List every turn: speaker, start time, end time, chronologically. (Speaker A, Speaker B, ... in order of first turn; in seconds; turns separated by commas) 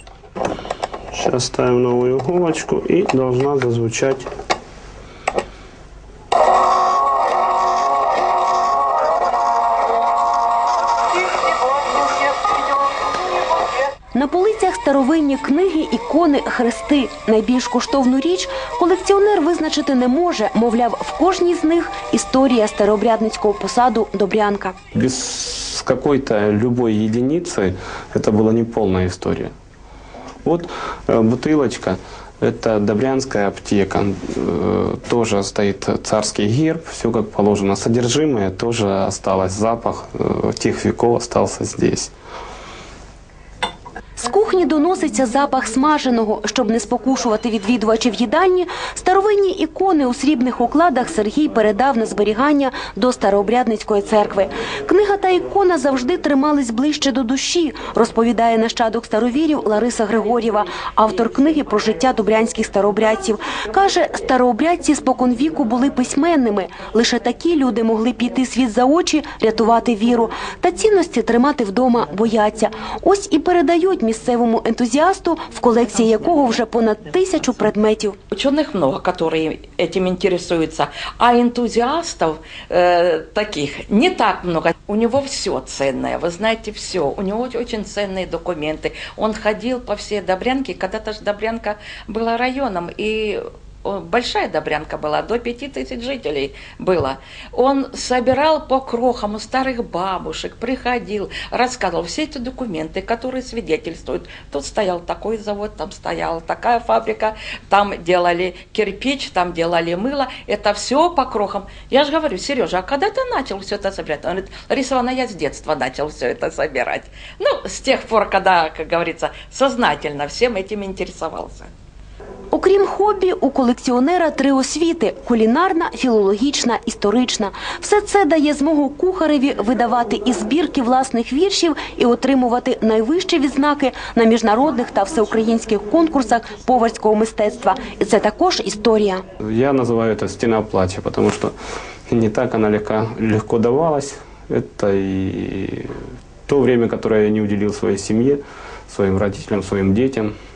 Speaker A: 1.1-4.3, Speaker B: 14.1-24.8, Speaker A: 24.9-29.5, Speaker A: 30.4-42.1, Speaker B: 44.2-78.2, Speaker C: 78.3-121.7, Speaker B: 122.5-139.2, Speaker A: 139.4-141.5, Speaker A: 142.1-145.9, Speaker A: 146.5-150.3